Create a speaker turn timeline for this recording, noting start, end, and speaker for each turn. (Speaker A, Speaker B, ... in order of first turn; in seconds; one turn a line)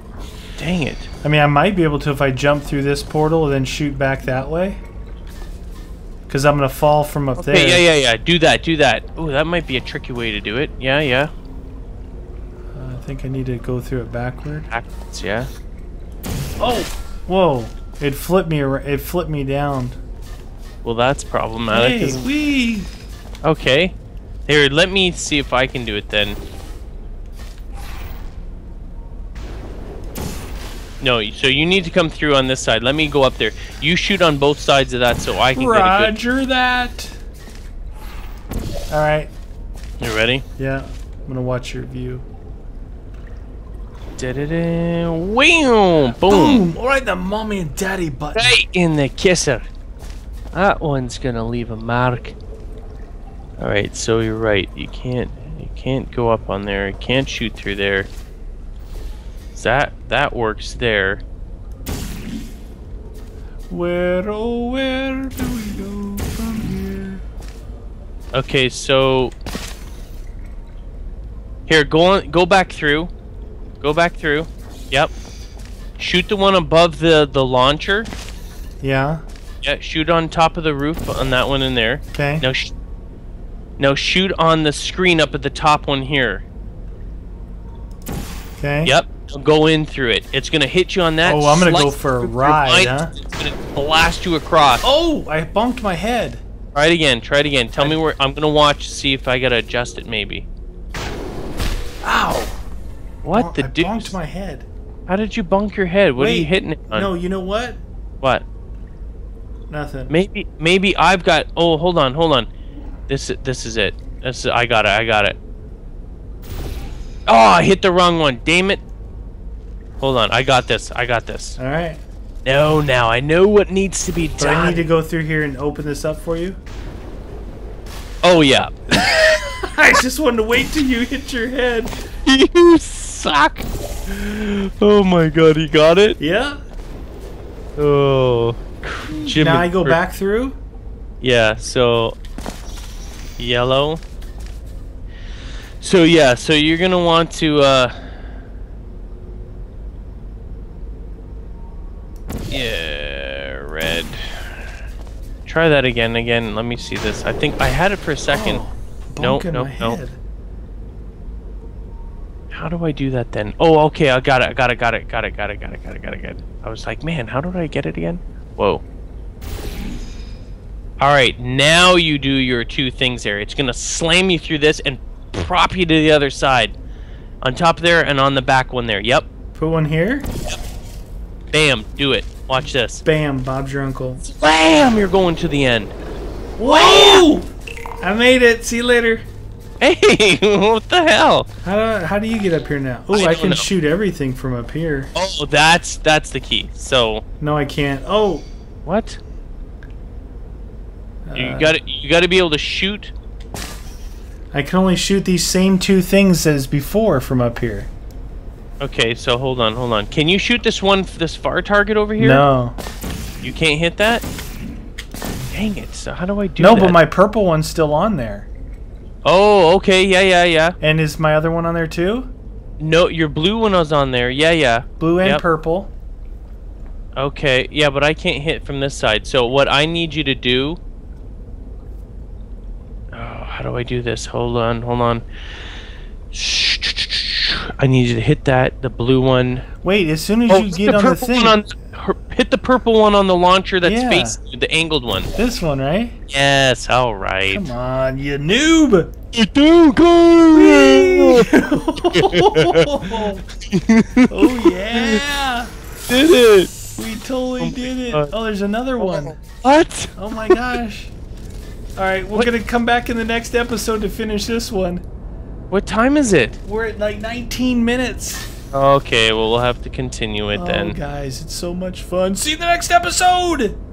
Speaker A: 0.6-1.1
Speaker B: 1.2-4.8
Speaker B: 6.3-7.8
Speaker A: 7.3-11.3
Speaker B: 12.7-14.7
Speaker A: 14.7-15.5
Speaker B: 16.6-20.0
Speaker A: 20.8-22.2
Speaker B: 21.7-22.9
Speaker A: 23.4-23.9
Speaker A: 24.4-26.4
Speaker A: 31.0-36.1
Speaker B: 35.5-37.2
Speaker B: 38.9-39.3
Speaker A: 40.0-40.4
Speaker B: 40.6-42.2
Speaker A: 44.2-46.6
Speaker B: 46.0-48.6
Speaker A: 48.3-49.6
Speaker A: 50.5-52.4
Speaker A: 53.6-58.1
Speaker A: 59.5-61.2
Speaker B: 63.7-67.2
Speaker A: 68.3-69.3
Speaker A: 71.7-73.1
Speaker A: 73.8-75.1
Speaker A: 76.0-78.1
Speaker B: 78.8-79.2
Speaker A: 79.6-82.7
Speaker B: 82.1-82.5
Speaker A: 83.8-86.4
Speaker B: 88.6-88.9
Speaker A: 88.8-94.8
Speaker B: 91.2-93.1
Speaker B: 94.8-96.4
Speaker A: 96.7-100.5
Speaker B: 102.0-102.6
Speaker A: 103.2-104.2
Speaker B: 103.3-104.7
Speaker A: 105.1-107.1
Speaker B: 106.2-107.8
Speaker B: 109.7-110.1
Speaker A: 110.1-112.5
Speaker A: 113.1-115.4
Speaker A: 117.3-118.8
Speaker A: 120.0-121.6
Speaker B: 121.6-122.0
Speaker A: 122.4-124.8
Speaker B: 124.4-126.6
Speaker A: 128.2-129.3
Speaker B: 129.4-131.9
Speaker A: 132.2-136.2
Speaker B: 136.2-136.6
Speaker A: 137.8-140.0
Speaker B: 139.1-140.6
Speaker A: 141.2-142.2
Speaker A: 143.4-144.0
Speaker A: 145.8-148.2
Speaker A: 152.5-154.6
Speaker A: 155.4-158.6
Speaker B: 158.3-160.2
Speaker A: 159.2-160.0
Speaker A: 162.5-168.8
Speaker A: 171.0-176.7
Speaker A: 177.4-179.2
Speaker B: 179.5-180.3
Speaker A: 181.5-183.0
Speaker B: 182.6-184.2
Speaker A: 184.2-185.9
Speaker B: 186.6-187.5
Speaker A: 186.6-187.3
Speaker B: 188.0-189.2
Speaker A: 189.8-191.5
Speaker B: 191.6-195.1
Speaker A: 193.1-193.7
Speaker A: 195.1-197.2
Speaker B: 197.4-198.5
Speaker A: 198.8-199.2
Speaker B: 201.2-201.8
Speaker A: 201.3-203.1
Speaker B: 204.5-207.9
Speaker A: 208.8-212.4
Speaker B: 212.2-212.8
Speaker A: 213.4-214.2
Speaker A: 215.5-217.0
Speaker B: 216.6-218.5
Speaker A: 219.2-220.8
Speaker B: 220.8-222.3
Speaker A: 222.8-225.4
Speaker B: 225.0-225.9
Speaker A: 227.2-230.8
Speaker A: 233.1-235.2
Speaker A: 236.3-239.7
Speaker B: 239.8-241.6
Speaker A: 240.5-245.3
Speaker B: 243.8-244.4
Speaker B: 245.3-246.2
Speaker A: 246.3-247.6
Speaker B: 247.5-249.1
Speaker A: 249.3-251.5
Speaker B: 250.5-253.4
Speaker A: 252.0-255.2
Speaker B: 254.3-255.7
Speaker A: 256.1-256.7
Speaker B: 256.9-259.4
Speaker A: 257.6-258.3
Speaker A: 259.0-260.8
Speaker B: 260.1-261.1
Speaker B: 261.9-265.0
Speaker A: 265.7-266.6
Speaker B: 266.6-268.5
Speaker A: 268.7-271.0
Speaker B: 270.5-273.8